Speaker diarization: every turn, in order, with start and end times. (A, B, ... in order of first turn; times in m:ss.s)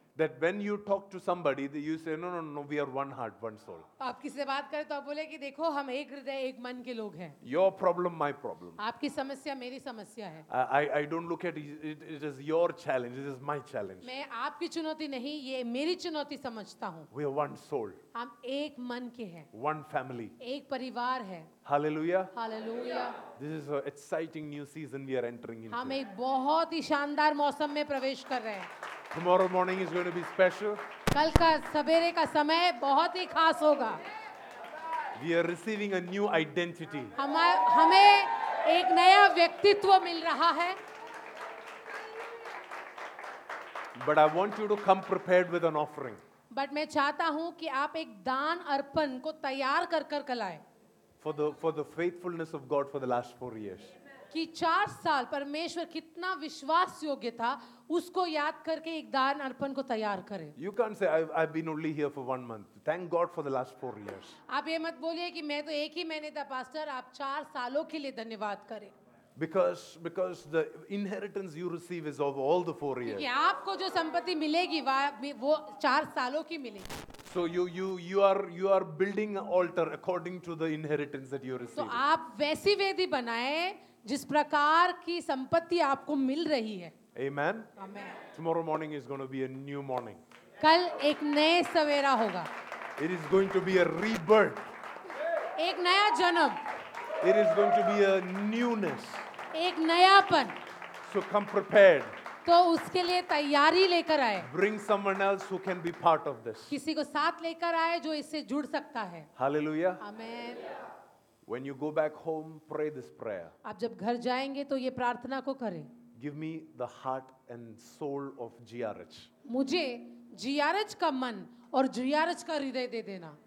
0:00.2-0:03.9 A
0:04.0-0:07.4 B
0:07.4-0:08.8 A
0:08.8-0:10.5 B
0:10.5-0:14.1 A
0:14.0-0:17.1 B
0:17.1-0:18.0 A
0:18.2-0:19.5 B
0:19.5-0:20.4 A
0:20.4-0:21.5 B
0:21.6-0:22.3 A
0:22.3-0:23.2 B
0:23.3-0:26.0 A
0:25.7-0:28.7 B
0:29.1-0:30.8 A
0:31.1-0:34.0 B
0:35.2-0:37.1 A
0:37.2-0:40.8 B
0:44.0-0:46.2 A
0:46.5-0:50.6 B
0:51.2-0:53.9 A
0:54.3-1:00.6 B
1:00.6-1:04.4 A
1:04.5-1:08.9 B
1:09.4-1:13.3 A
1:13.0-1:17.0 B
1:17.2-1:22.0 A
1:21.8-1:27.0 B
1:27.2-1:27.7 A
1:27.8-1:28.2 B
1:28.3-1:30.2 A
1:30.6-1:32.5 B
1:33.0-1:34.6 A
1:35.6-1:36.6 B
1:37.2-1:39.2 A
1:39.5-1:40.6 B
1:41.0-1:42.2 A
1:42.4-1:44.5 B
1:44.4-1:46.8 A
1:46.7-1:49.3 B
1:49.4-1:50.0 A
1:50.0-1:50.7 B
1:51.5-1:53.5 A
1:53.6-1:55.9 B
1:56.2-1:59.3 A
1:59.4-2:03.4 B